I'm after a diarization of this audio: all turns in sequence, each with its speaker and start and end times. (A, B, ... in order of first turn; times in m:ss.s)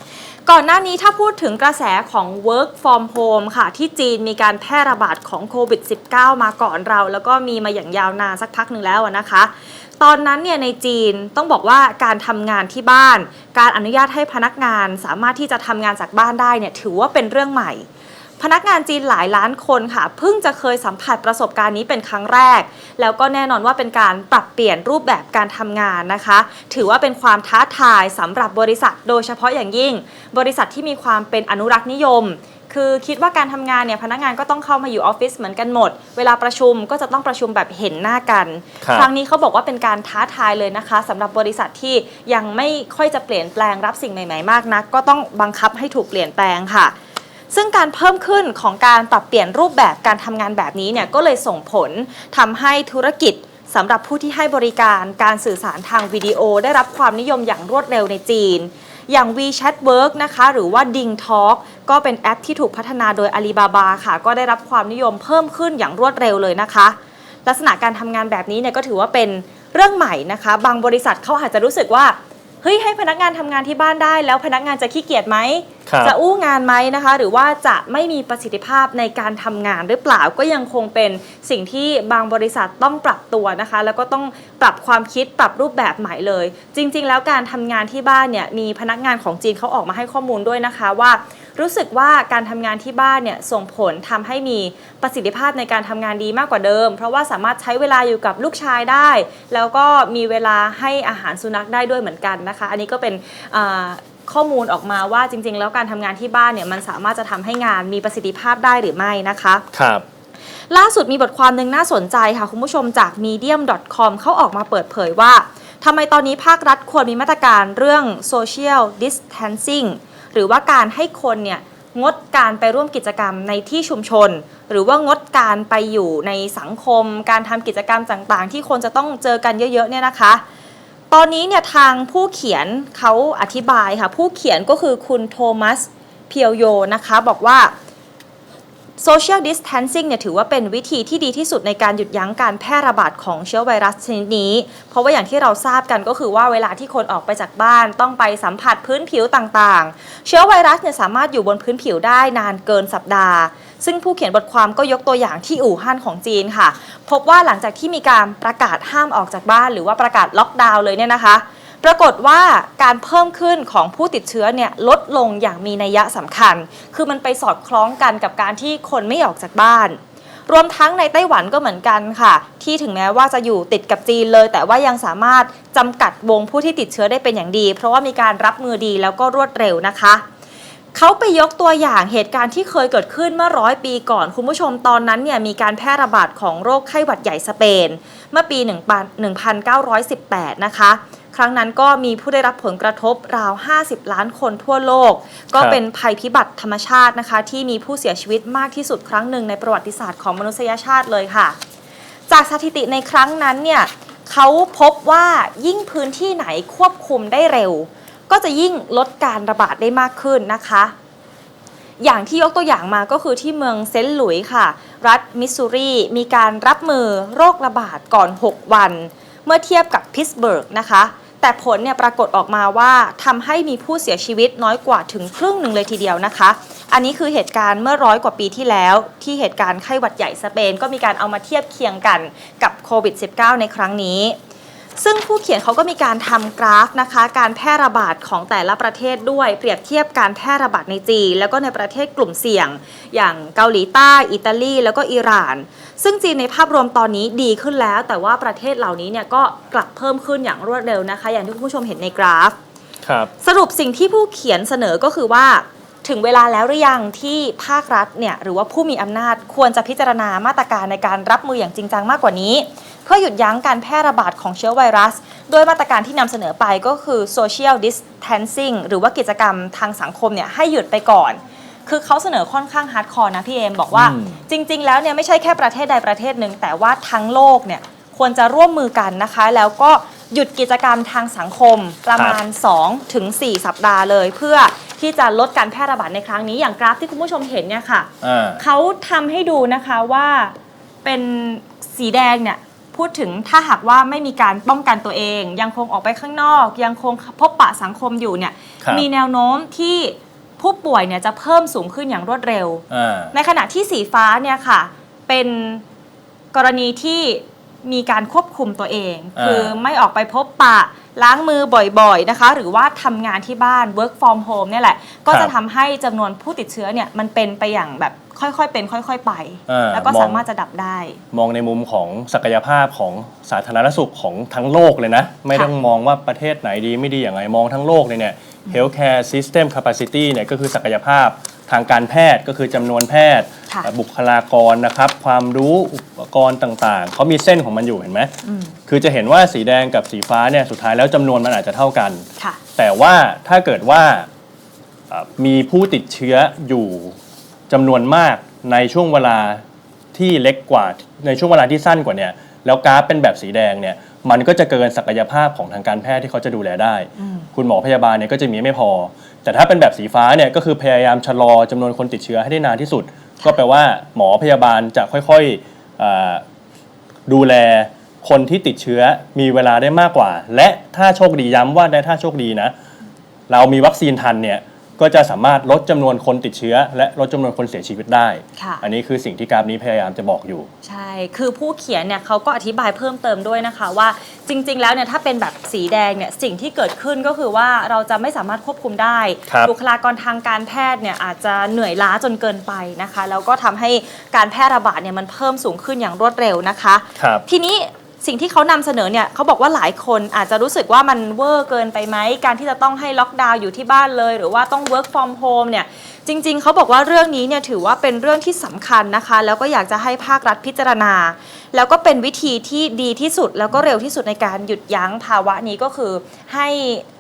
0:00.5-0:17.9 A
0:18.4-0:46.9 A
0:38.8-0:39.1 B
0:47.5-1:49.6 A
1:15.9-1:16.2 B
1:49.7-1:50.0 B
1:50.7-2:10.4 A
2:11.1-2:17.7 A
2:19.0-3:00.2 A
3:01.0-3:21.6 A
3:22.3-3:30.9 A
3:32.0-3:54.4 A
3:55.0-4:12.6 A
4:13.1-4:13.3 B
4:13.4-5:05.8 A
4:33.9-4:34.4 B
4:48.2-4:48.6 B
5:02.9-5:03.3 B
5:06.5-5:21.2 A
5:09.4-5:09.8 B
5:19.7-5:20.4 B
5:21.3-5:38.3 B
5:38.4-5:38.7 A
5:38.9-5:42.2 B
5:42.8-5:44.3 B
5:45.1-5:47.2 B
5:47.7-5:49.6 B
5:50.1-6:06.4 B
5:57.2-5:57.5 A
6:07.3-6:12.7 B
6:13.5-6:20.7 B
6:18.6-6:18.8 A
6:20.8-6:57.0 A
6:37.2-6:37.4 B